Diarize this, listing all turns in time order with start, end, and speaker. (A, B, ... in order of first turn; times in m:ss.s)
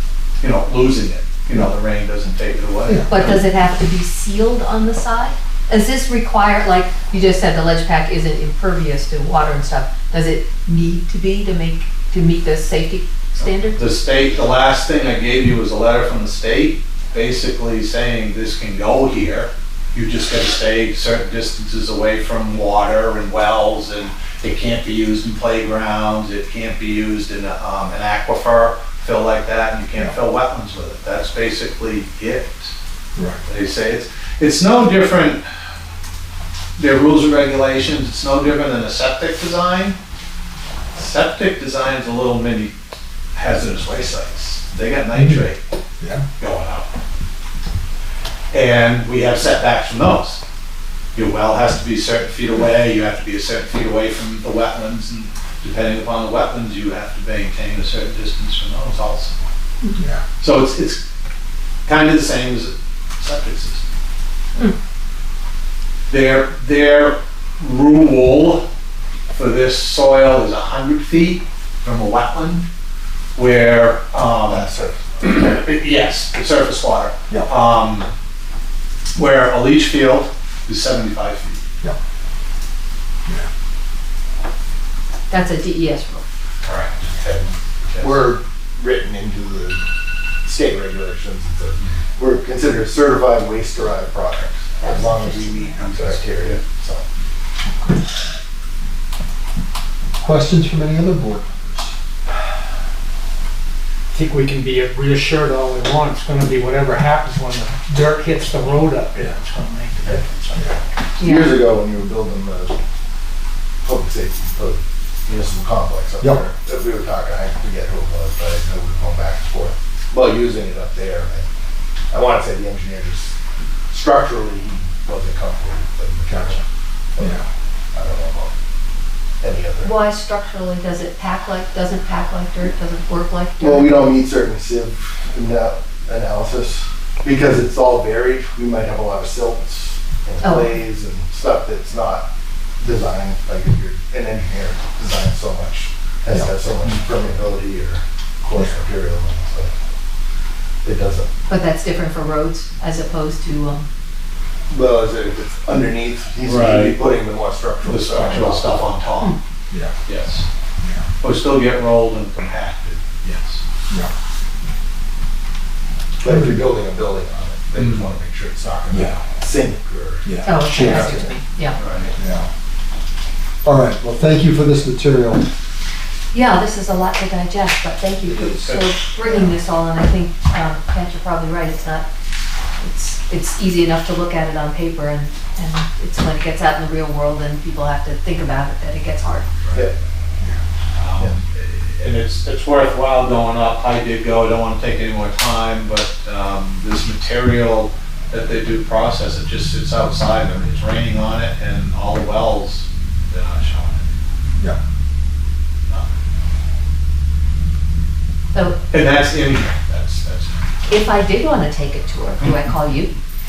0:00.4-0:03.4 A
0:02.9-0:03.1 B
0:03.1-0:13.8 C
0:13.7-0:32.7 A
0:33.4-0:35.4 A
0:36.8-0:40.0 A
0:40.9-0:42.7 A
0:43.3-0:45.6 A
0:45.1-0:45.5 B
0:46.4-0:46.9 A
0:48.5-0:50.4 A
0:51.1-0:59.3 A
0:59.9-1:00.2 B
1:00.4-1:01.0 A
1:01.8-1:03.8 A
1:06.1-1:08.6 A
1:09.3-1:12.6 A
1:13.4-1:14.7 A
1:14.4-1:15.2 D
1:15.2-1:18.1 A
1:19.1-1:21.6 A
1:25.3-1:26.2 C
1:26.6-1:28.3 A
1:28.0-1:29.8 D
1:30.4-1:37.0 D
1:34.8-1:35.9 C
1:35.9-1:36.6 A
1:37.6-1:38.0 B
1:40.2-1:41.9 B
1:44.1-1:50.7 E
1:51.2-1:51.6 C
1:51.2-1:52.8 D
1:53.8-2:01.4 D
2:02.1-2:03.3 D
2:03.9-2:06.6 D
2:06.3-2:06.6 B
2:07.1-2:08.5 D
2:07.2-2:07.4 B
2:09.4-2:09.9 D
2:09.8-2:14.1 C
2:13.6-2:22.2 D
2:20.4-2:20.8 C
2:22.8-2:29.7 D
2:30.8-2:31.3 D
2:31.5-2:33.9 C
2:34.7-2:38.9 D
2:36.5-2:36.8 A
2:37.8-2:39.3 A
2:40.0-2:40.5 A
2:41.2-2:43.6 A
2:46.2-2:51.0 D
2:46.2-2:46.6 B
2:47.8-2:48.1 A
2:48.9-2:49.2 B
2:50.2-2:51.3 B
2:50.4-2:51.8 C
2:51.8-2:52.1 A
2:52.2-2:52.5 B
2:53.6-2:55.4 B
2:56.3-3:02.0 C
2:58.4-2:58.8 A
2:59.3-2:59.5 B
3:02.8-3:09.5 C
3:10.9-3:24.1 A
3:28.9-3:30.7 A
3:30.9-3:33.1 C